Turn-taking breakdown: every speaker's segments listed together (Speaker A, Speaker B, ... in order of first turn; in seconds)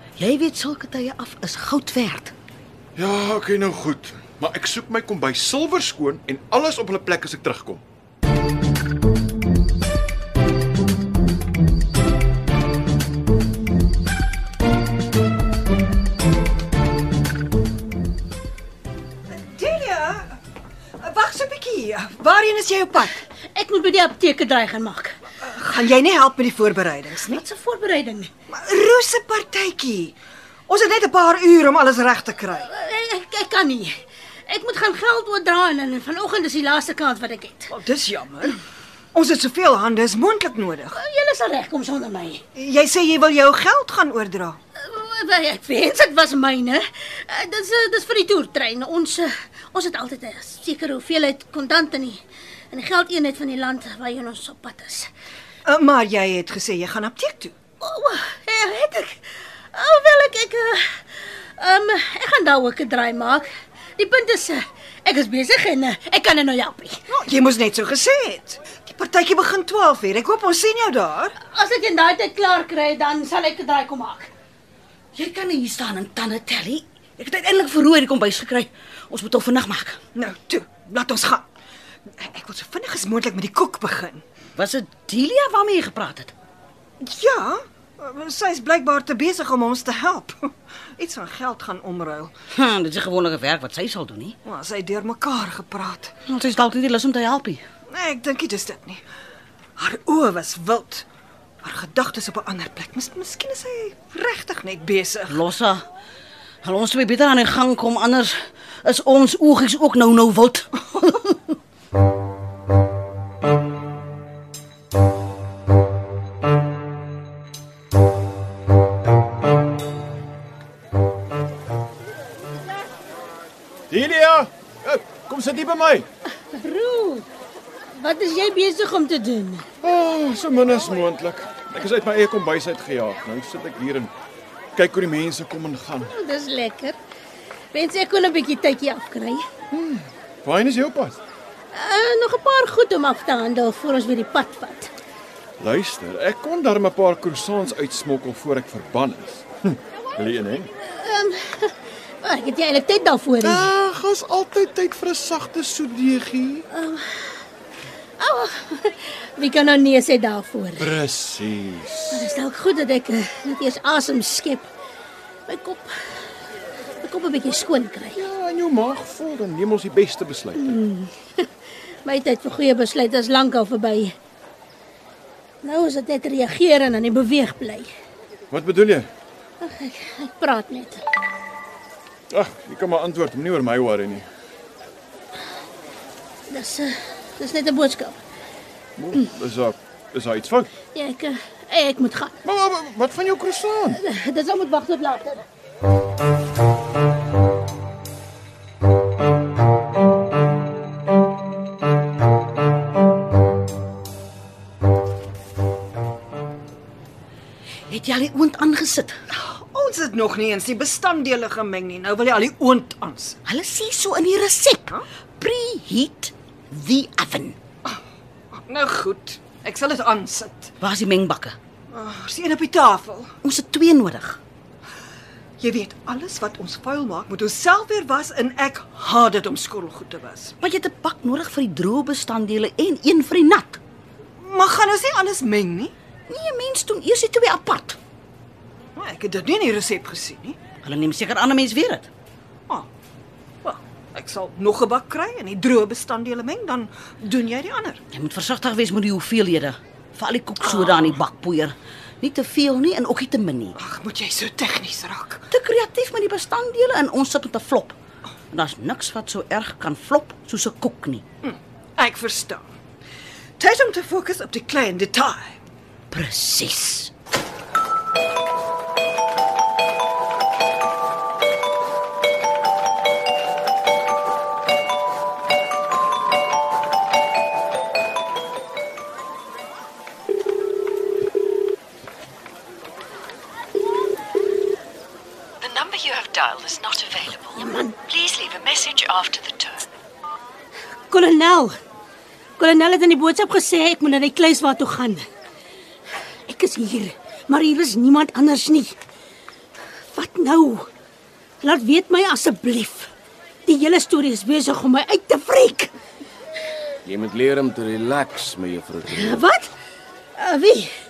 Speaker A: 0.2-2.3, 75.1-80.0, 84.6-86.3, 92.5-94.3, 96.3-97.6, 105.3-105.8, 106.6-111.4, 207.9-209.1, 213.4-217.6, 220.8-221.6, 223.4-224.4, 230.6-233.8, 236.3-238.0, 240.8-242.1, 248.1-253.8, 255.5-257.9, 258.5-261.2, 266.1-267.1
Speaker B: 3.0-7.8, 123.9-126.1, 129.8-134.1, 134.8-136.1, 139.7-141.2, 145.6-150.7, 153.4-156.7, 160.8-162.3, 168.2-170.8, 178.5-179.1, 182.3-184.3, 189.0-190.7, 192.4-194.0
Speaker C: 19.3-20.4, 21.0-23.2, 25.4-27.4, 28.5-30.1, 30.7-32.7, 37.7-38.6, 39.1-41.0, 42.5-44.6, 55.6-57.5, 67.1-71.3, 80.1-81.5, 82.1-84.2, 87.0-92.3, 94.5-96.1, 97.9-99.0, 99.8-101.0, 101.6-105.4, 209.3-213.4, 218.5-220.7, 221.9-223.3, 225.6-230.5, 234.4-235.9, 238.9-240.6, 243.6-248.0, 253.8-255.4, 261.4-262.7, 263.6-265.6
Speaker D: 23.5-25.2, 27.3-28.3, 32.7-33.9, 34.5-37.7, 40.9-42.4, 44.8-55.1, 57.8-67.0, 71.4-74.3, 126.5-127.3, 127.9-129.7, 136.0-137.0, 137.7-139.4, 141.7-144.9, 150.9-153.7, 156.7-157.4, 158.2-160.9, 162.1-164.7, 165.5-165.9, 167.0-168.2, 170.6-171.5, 172.0-174.1, 175.6-177.9, 179.6-181.0, 186.5-188.2, 190.9-192.4, 193.9-195.4, 287.5-288.0, 291.1-291.7, 292.6-295.2, 296.4-299.0, 300.1-300.9, 301.6-303.1, 303.6-305.9, 309.1-309.7, 310.4-310.9
Speaker E: 285.6-289.9
Speaker F: 307.0-309.4